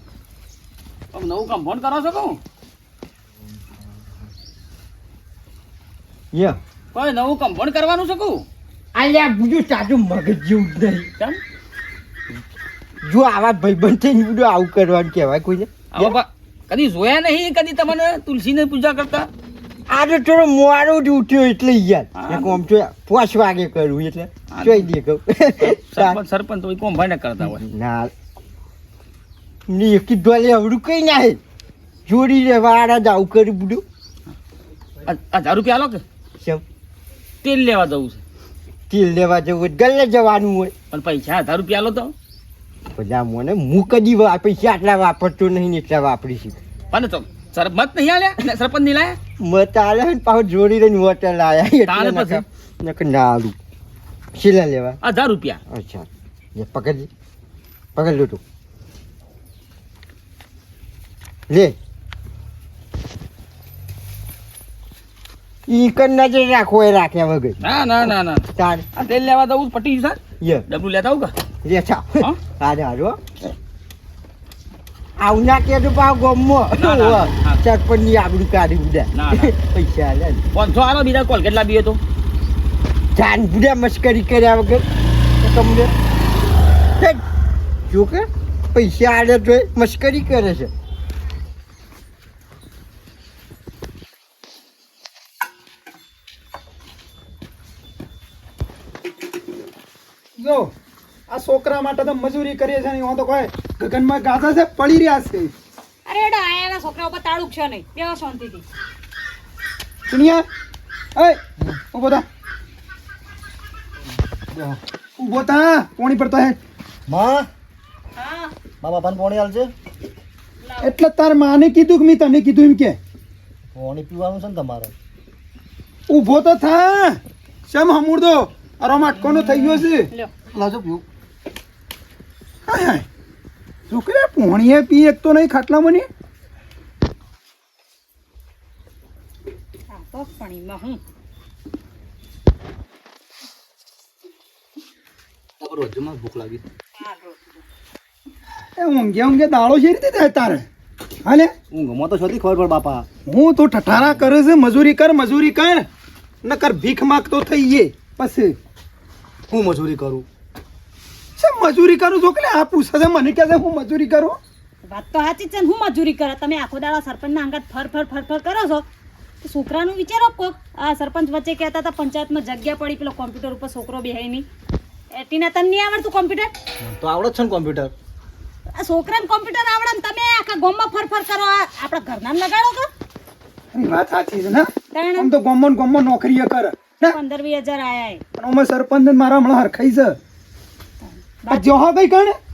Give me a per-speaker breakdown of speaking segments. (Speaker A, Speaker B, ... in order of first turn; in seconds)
Speaker A: 1.1-2.4, 6.9-8.4, 15.9-19.3, 22.1-22.6, 24.5-24.9, 25.6-27.6, 35.0-36.0, 37.4-38.2, 40.9-42.1, 46.9-49.2, 51.9-52.5, 55.0-55.6, 67.6-71.3, 76.7-77.6, 79.1-79.5, 80.5-82.0
Speaker B: 6.3-6.6, 8.9-11.1, 13.0-16.1, 19.9-26.2, 27.4-28.1, 29.7-31.4, 32.1-33.8, 36.4-36.6, 38.9-40.7, 42.9-46.6, 49.4-53.6, 54.4-55.0, 55.7-57.1, 58.0-58.4, 61.5-61.8, 65.7-68.8, 70.4-70.7, 71.6-73.2, 75.2-80.4, 83.2-84.9, 85.4-85.9, 87.9-90.7
Speaker C: 100.4-100.7, 101.3-105.5, 110.1-110.5, 111.2-112.2, 115.2-116.6, 120.8-123.0, 126.1-130.1, 132.7-133.1, 133.9-136.1, 148.8-150.7, 151.2-151.5, 153.3-155.9, 156.4-158.6, 161.4-164.4, 183.7-187.2, 188.4-190.2, 191.5-192.4
Speaker D: 106.1-108.7, 118.2-118.5, 120.6-121.0, 139.9-141.0, 147.0-147.6, 164.9-168.9, 169.4-174.5, 175.1-176.5, 178.7-182.9, 184.9-185.3, 187.0-188.2, 191.1-191.8
Speaker E: 114.5-114.8, 117.1-117.5, 118.8-119.7, 123.7-124.9, 129.2-129.8, 130.5-131.0, 145.6-146.6, 151.7-153.1, 153.9-154.2, 159.5-160.3, 176.8-177.9